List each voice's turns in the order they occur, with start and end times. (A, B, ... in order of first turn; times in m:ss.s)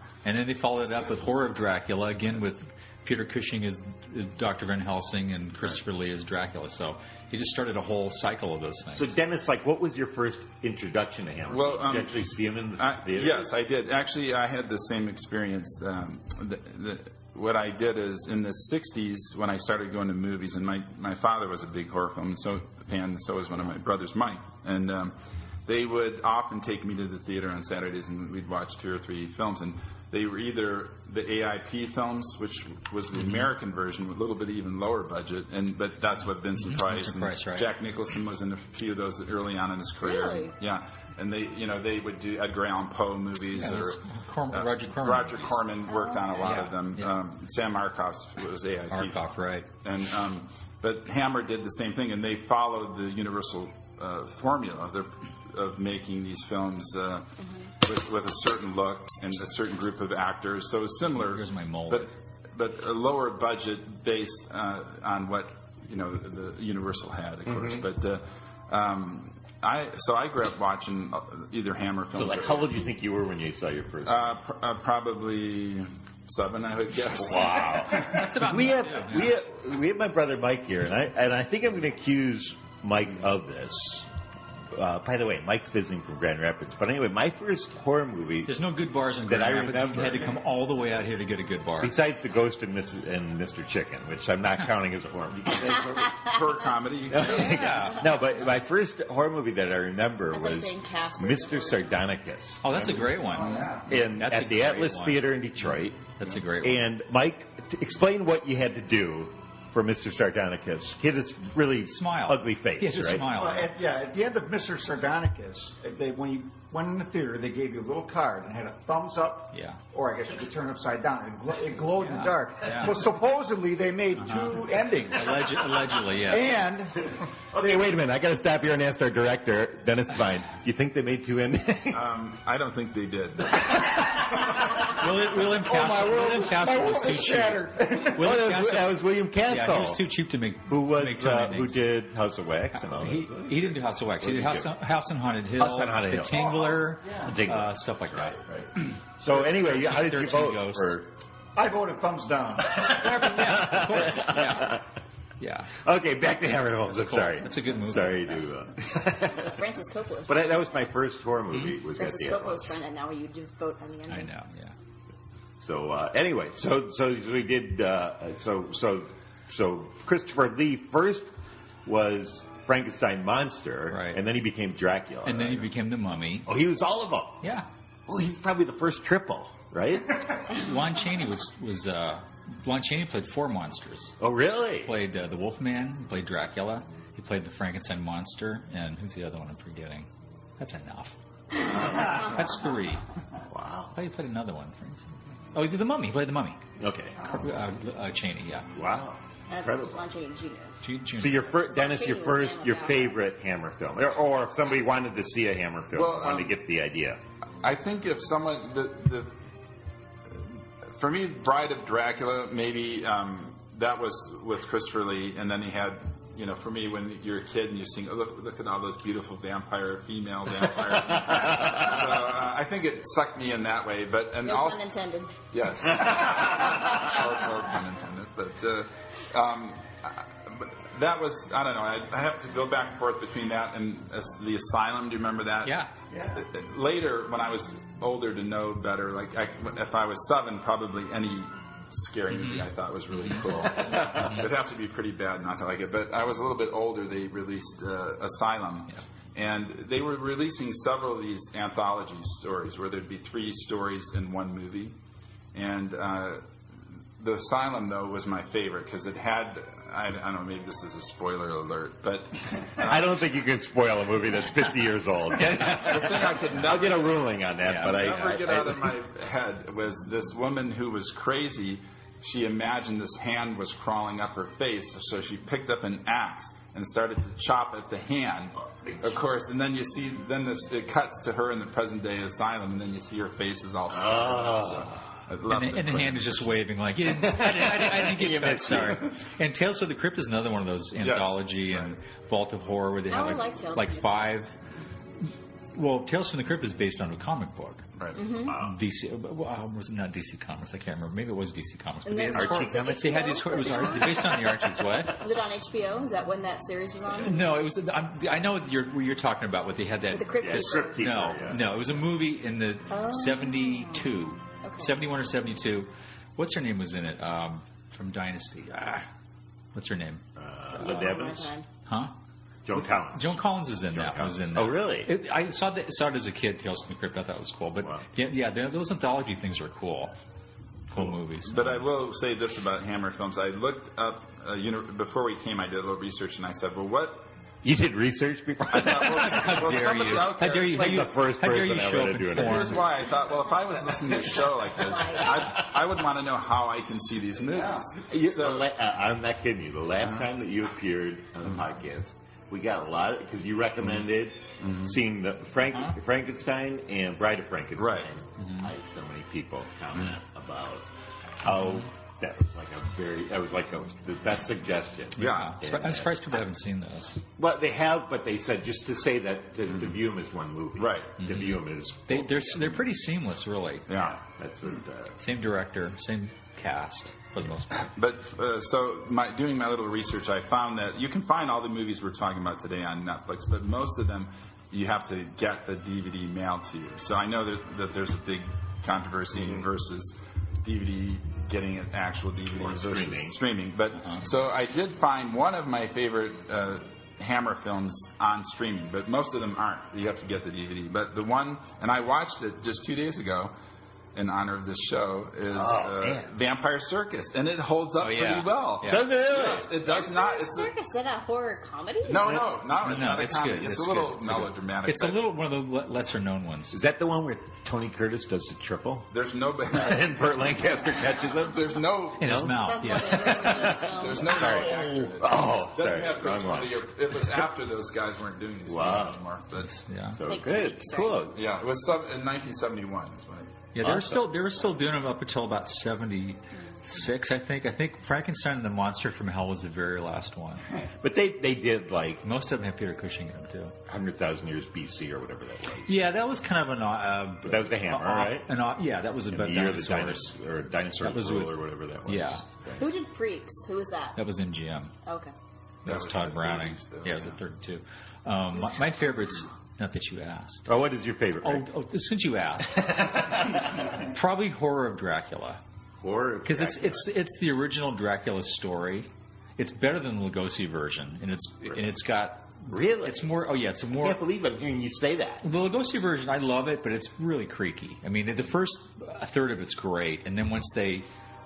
0:00.2-0:09.2 A
0:08.9-0:13.5 B
0:11.5-0:12.2 C
0:12.8-0:44.0 C
0:36.6-0:37.7 A
0:40.0-0:40.5 D
0:43.5-0:45.6 A
0:44.5-0:49.2 C
0:45.9-0:46.4 D
0:46.4-0:47.1 A
0:48.9-0:49.7 A
0:49.8-1:12.8 C
0:57.4-0:57.7 D
1:01.2-1:02.1 A
1:07.5-1:07.8 B
1:12.1-1:14.4 B
1:14.0-1:18.2 C
1:17.1-1:24.0 B
1:17.9-1:19.4 A
1:24.7-1:28.6 B
1:28.4-1:32.0 A
1:29.2-1:30.4 B
1:31.8-1:36.2 B
1:36.1-1:37.6 C
1:37.1-1:43.1 B
1:37.2-1:38.2 A
1:40.3-1:41.9 D
1:42.6-1:45.3 A
1:42.9-1:43.8 C
1:43.3-1:43.9 E
1:43.8-1:46.1 B
1:46.2-1:46.8 A
1:46.6-1:53.3 B
1:51.8-1:53.7 A
1:53.3-2:07.1 E
1:59.5-1:59.8 A
2:02.0-2:03.0 A
2:04.2-2:06.5 A
2:07.5-2:12.1 B
2:07.6-2:07.9 E
2:11.9-2:13.8 C
2:14.8-2:21.8 A
2:15.0-2:18.2 E
2:18.0-2:20.0 B
2:20.7-2:24.8 B
2:22.8-2:28.4 A
2:25.5-2:26.5 B
2:26.3-2:27.4 E
2:27.2-2:31.1 B
2:29.2-2:31.0 A
2:31.6-2:33.2 E
2:32.8-2:34.8 A
2:33.1-2:34.8 B
2:35.4-2:35.8 A
2:35.8-2:39.6 B
2:36.8-2:38.4 A
2:39.3-2:40.4 D
2:40.3-2:42.8 B
2:42.0-2:44.3 D
2:44.1-2:44.7 A
2:45.6-2:51.3 B
2:51.8-2:55.7 B
2:53.9-2:54.2 A
2:55.2-2:56.5 A
2:56.4-2:57.4 B
2:58.1-3:00.4 B
3:00.5-3:04.2 A
3:04.2-3:04.9 B
3:04.8-3:10.1 A
3:10.6-3:13.0 A
3:11.6-3:12.4 B
3:13.5-3:13.9 B
3:13.9-3:16.6 A
3:16.8-3:17.6 B
3:17.2-3:18.7 A
3:18.7-3:20.0 B
3:19.5-3:20.7 D
3:20.8-3:21.5 A
3:21.2-3:27.2 B
3:21.6-3:23.1 D
3:25.9-3:26.6 C
3:27.6-3:29.3 C
3:30.9-3:44.8 C
3:44.4-3:45.3 D
3:45.5-3:55.8 C
3:55.6-3:55.9 A
3:56.1-3:56.4 E
3:56.3-4:15.0 C
4:02.3-4:04.4 A
4:15.5-4:23.2 C
4:22.8-4:29.0 B
4:25.6-4:46.7 C
4:27.6-4:28.0 A
4:38.8-4:39.1 B
4:43.9-4:45.1 B
4:45.5-4:54.6 A
4:47.0-4:49.2 B
4:51.0-4:52.0 C
4:53.1-4:54.4 D
4:55.2-4:57.8 A
4:58.0-4:58.2 C
4:58.1-4:58.6 D
4:58.3-4:58.8 B
4:58.4-5:05.2 A
5:02.0-5:04.6 D
5:02.3-5:04.2 B
5:05.1-5:07.5 D
5:07.2-5:19.1 A
5:10.1-5:11.0 D
5:10.4-5:12.0 B
5:12.9-5:14.1 D
5:14.6-5:15.0 D
5:19.7-5:20.2 A
5:20.4-5:21.5 B
5:20.7-5:21.0 A
5:20.8-5:21.7 D
5:21.8-5:22.1 A
5:22.6-5:25.1 B
5:22.7-5:30.1 A
5:30.9-5:31.8 A
5:31.4-5:37.3 C
5:37.6-5:39.8 B
5:38.7-5:41.1 C
5:38.8-5:42.8 A
5:40.5-5:42.8 B
5:42.3-5:48.7 C
5:44.8-5:45.4 D
5:47.4-5:47.9 E
5:48.0-6:00.9 B
5:50.0-5:50.3 C
5:54.6-5:55.0 C
5:55.7-5:56.0 A
5:57.8-5:58.1 C
5:58.4-5:58.7 A
6:01.4-6:06.2 B
6:01.6-6:01.8 A
6:05.2-6:05.5 C
6:05.2-6:07.2 A
6:07.3-6:12.8 B
6:09.7-6:09.9 C
6:10.8-6:11.2 C
6:11.2-6:13.9 A
6:13.9-6:14.2 C
6:13.9-6:15.2 B
6:15.2-6:17.9 A
6:17.8-6:43.5 C
6:29.3-6:29.7 B
6:32.5-6:33.4 B
6:34.0-6:34.2 A
6:44.1-6:50.7 C
6:45.5-6:46.3 B
6:48.0-6:49.1 A
6:48.8-6:49.8 B
6:49.8-6:52.4 D
6:52.1-6:55.2 C
6:52.8-6:56.8 A
6:56.7-6:59.1 B
6:59.1-7:00.7 C
6:59.7-7:06.8 B
7:01.2-7:02.4 C
7:02.2-7:03.5 A
7:02.6-7:04.7 D
7:03.3-7:09.8 C
7:08.6-7:09.2 B
7:09.5-7:10.2 A
7:10.1-7:11.5 B
7:10.2-7:11.3 D
7:11.3-7:13.6 C
7:13.7-7:20.6 A
7:13.8-7:14.5 B
7:21.0-7:22.2 B
7:22.2-7:23.8 A
7:23.9-7:26.1 B
7:25.8-7:30.3 A
7:27.4-7:28.5 B
7:29.3-7:32.9 B
7:31.0-7:32.4 A
7:32.8-7:34.2 D
7:34.1-7:34.9 A
7:35.0-7:35.3 D
7:35.8-7:37.4 C
7:35.8-7:40.7 A
7:40.6-7:41.7 B
7:41.4-7:43.1 A
7:42.8-7:43.8 B
7:43.8-7:45.6 A
7:46.0-7:47.1 B
7:46.4-7:54.2 A
7:52.7-7:53.3 B
7:53.9-7:55.4 B
7:55.4-8:01.1 A